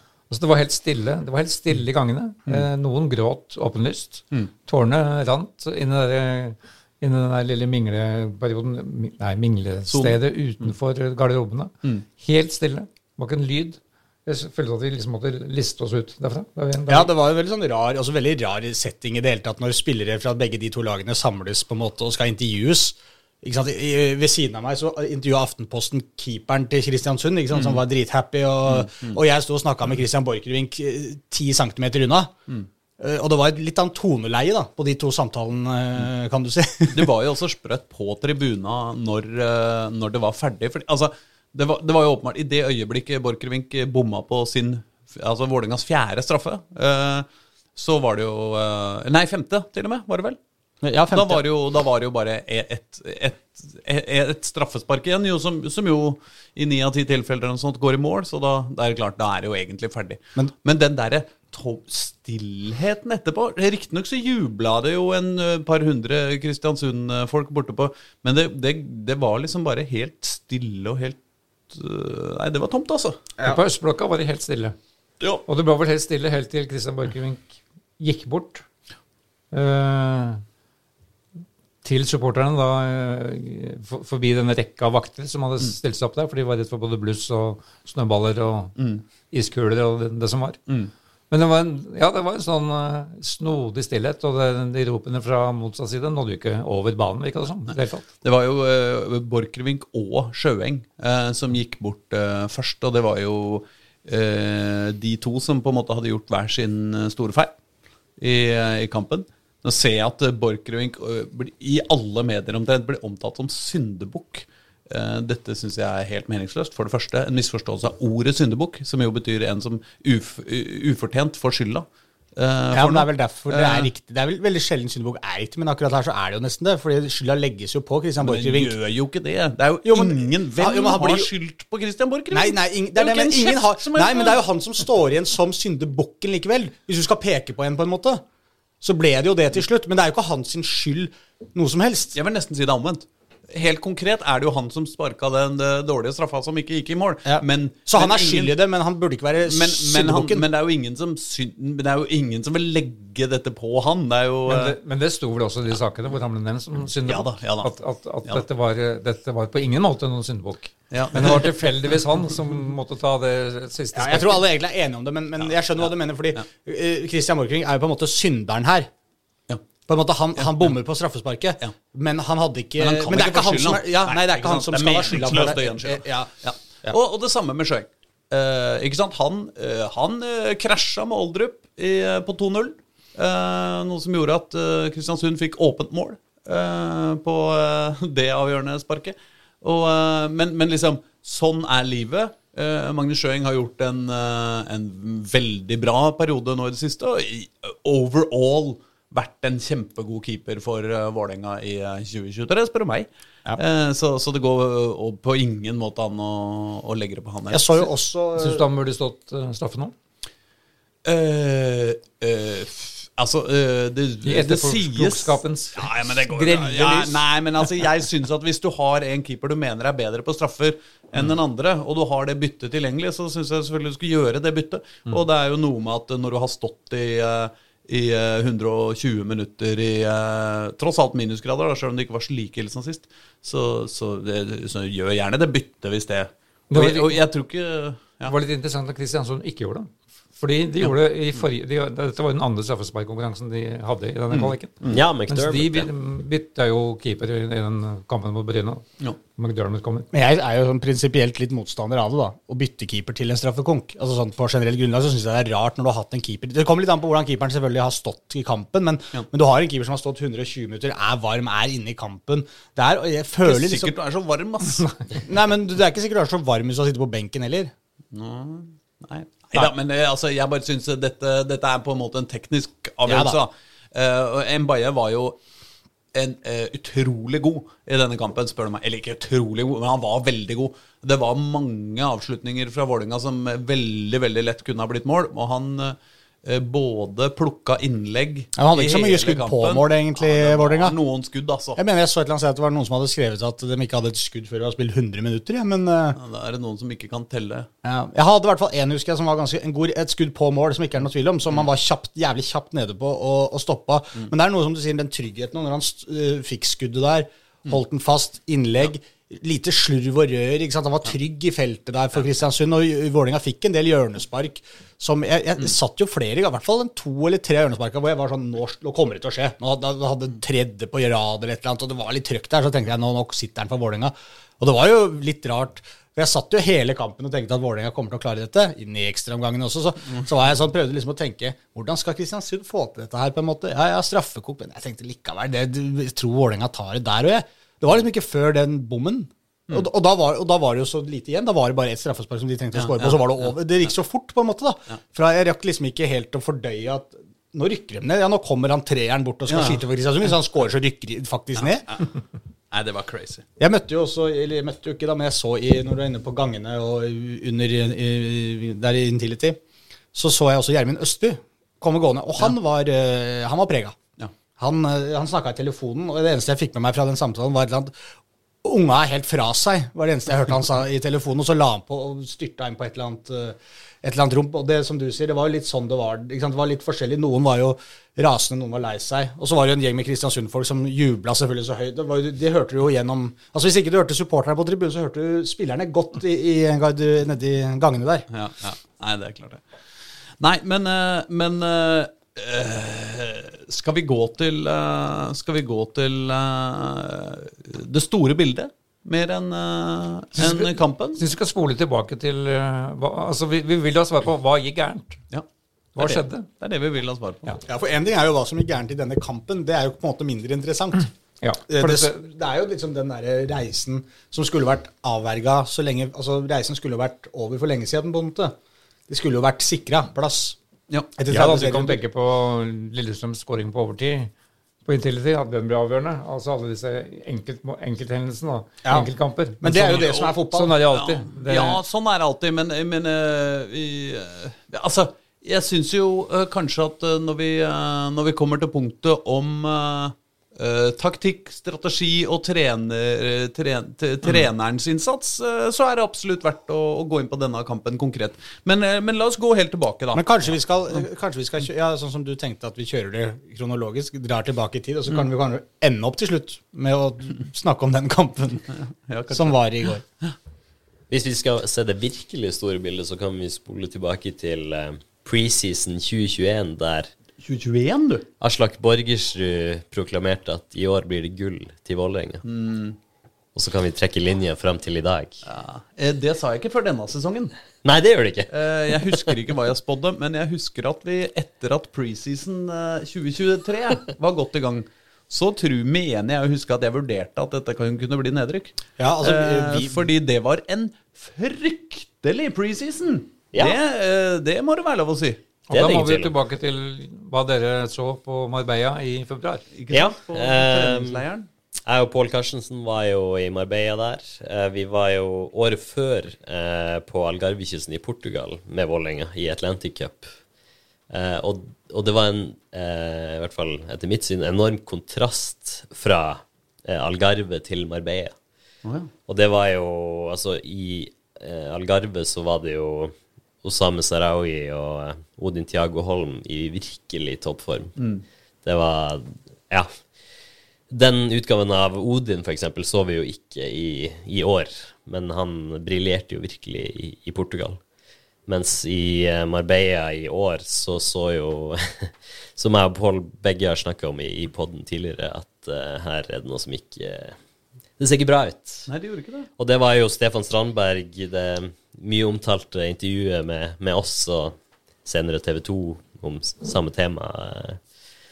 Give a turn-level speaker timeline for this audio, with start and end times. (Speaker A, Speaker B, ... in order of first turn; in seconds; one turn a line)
Speaker A: 0.3-17.1
Speaker B: 9.9-10.7
Speaker C: 16.9-32.3
Speaker B: 27.5-27.8
Speaker B: 28.6-29.2
Speaker C: 33.0-37.1
Speaker B: 36.9-50.4
Speaker C: 50.8-51.4
Speaker B: 51.1-71.2
Speaker B: 71.7-73.2
Speaker A: 73.4-74.8
Speaker A: 75.5-78.7
Speaker A: 79.5-80.4
Speaker A: 81.8-88.8
Speaker B: 88.8-89.0
Speaker A: 89.3-90.6
Speaker A: 91.3-98.0
Speaker B: 98.2-107.5
Speaker B: 108.2-123.9
Speaker C: 122.7-128.7
Speaker B: 128.2-134.4
Speaker C: 129.8-131.3
Speaker C: 132.3-138.2
Speaker C: 138.8-142.2
Speaker B: 142.1-148.5
Speaker C: 147.2-150.4
Speaker B: 149.5-154.8
Speaker A: 154.5-164.4
Speaker B: 157.1-157.7
Speaker B: 160.9-161.7
Speaker C: 163.9-168.9
Speaker C: 169.9-176.3
Speaker B: 170.3-170.7
Speaker B: 172.8-207.9
Speaker C: 207.5-208.6
Speaker A: 208.4-209.9
Speaker B: 211.0-238.3
Speaker A: 214.2-217.3
Speaker A: 236.7-237.2
Speaker A: 238.2-248.8
Speaker B: 244.3-245.0
Speaker D: 244.9-245.9
Speaker A: 249.3-250.1
Speaker C: 250.1-263.9
Speaker B: 263.4-265.2
Speaker C: 265.2-267.7
Speaker B: 268.1-275.4
Speaker C: 273.1-273.4
Speaker B: 276.1-291.8
Speaker C: 288.6-291.0
Speaker C: 291.8-296.2
Speaker B: 296.1-297.7
Speaker C: 297.8-351.9
Speaker B: 342.7-343.2
Speaker B: 349.5-349.8
Speaker B: 352.7-353.4
Speaker C: 353.6-359.6
Speaker C: 360.1-364.0
Speaker C: 364.6-367.9
Speaker C: 368.6-388.3
Speaker B: 388.3-389.8
Speaker B: 390.4-401.2
Speaker A: 400.4-405.2
Speaker A: 405.9-406.5
Speaker B: 406.0-407.5
Speaker C: 407.6-411.1
Speaker A: 411.4-412.2
Speaker C: 411.7-418.5
Speaker C: 419.1-420.6
Speaker C: 421.1-422.0
Speaker A: 421.3-424.3
Speaker A: 424.8-431.8
Speaker C: 429.6-430.8
Speaker B: 429.8-430.3
Speaker B: 430.9-450.5
Speaker C: 450.1-458.7
Speaker B: 458.7-459.6
Speaker C: 459.3-460.0
Speaker D: 461.1-467.1
Speaker B: 467.4-468.3
Speaker D: 468.4-472.4
Speaker B: 472.4-473.0
Speaker D: 473.5-475.4
Speaker B: 475.4-477.5
Speaker D: 477.8-479.3
Speaker B: 478.5-495.4
Speaker C: 489.0-490.1
Speaker D: 495.7-496.3
Speaker A: 495.7-499.6
Speaker B: 499.7-501.5
Speaker D: 499.9-501.2
Speaker D: 501.9-510.3
Speaker D: 511.1-518.4
Speaker B: 518.8-519.1
Speaker D: 519.2-528.0
Speaker B: 528.0-528.2
Speaker D: 528.6-530.1
Speaker D: 530.9-537.8
Speaker D: 538.5-547.4
Speaker D: 548.0-548.9
Speaker B: 548.9-549.5
Speaker D: 549.6-557.8